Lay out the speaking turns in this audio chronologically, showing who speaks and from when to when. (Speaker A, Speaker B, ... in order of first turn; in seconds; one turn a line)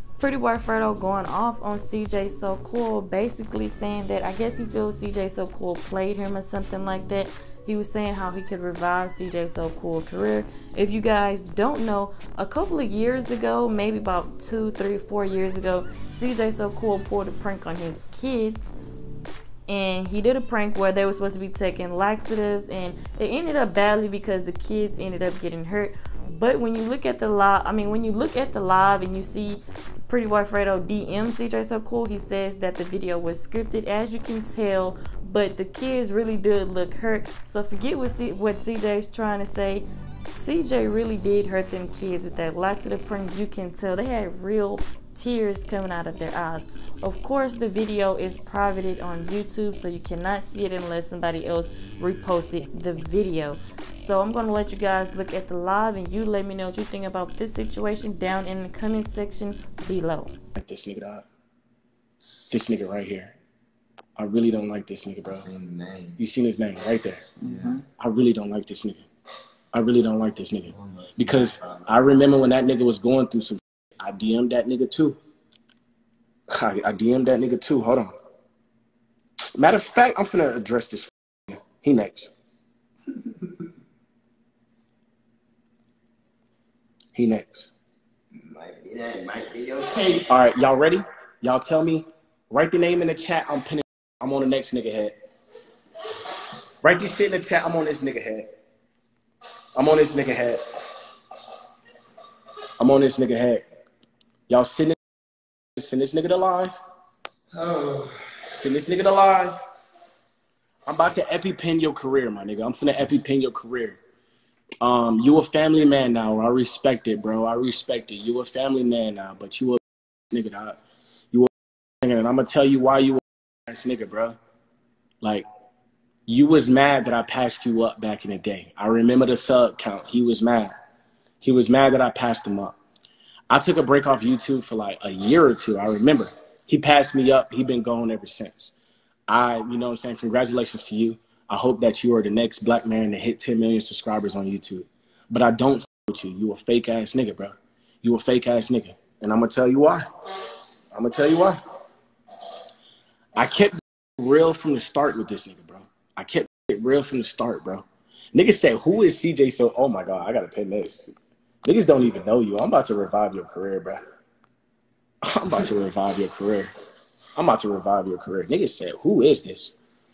Speaker A: 0.2-18.7
Speaker A: 19.7-60.3
Speaker B: 60.5-61.2
Speaker B: 62.5-63.3
Speaker B: 64.2-65.5
Speaker C: 65.3-66.2
Speaker B: 66.2-67.2
Speaker C: 67.4-67.8
Speaker B: 68.0-69.0
Speaker B: 69.7-75.2
Speaker C: 70.8-71.8
Speaker B: 76.5-78.1
Speaker B: 79.5-82.3
Speaker B: 87.1-87.7
Speaker C: 88.3-90.3
Speaker B: 90.3-95.1
Speaker B: 96.8-98.5
Speaker B: 99.7-100.6
Speaker B: 102.8-103.6
Speaker B: 104.5-105.0
Speaker B: 105.8-106.8
Speaker C: 107.5-108.4
Speaker B: 108.5-109.6
Speaker B: 110.9-114.0
Speaker B: 114.8-120.8
Speaker B: 122.0-124.4
Speaker B: 126.3-130.7
Speaker B: 131.4-132.8
Speaker B: 133.5-138.7
Speaker B: 139.3-150.1
Speaker B: 150.9-151.6
Speaker B: 153.3-161.1
Speaker B: 161.6-164.0
Speaker B: 165.3-166.7
Speaker B: 167.3-169.8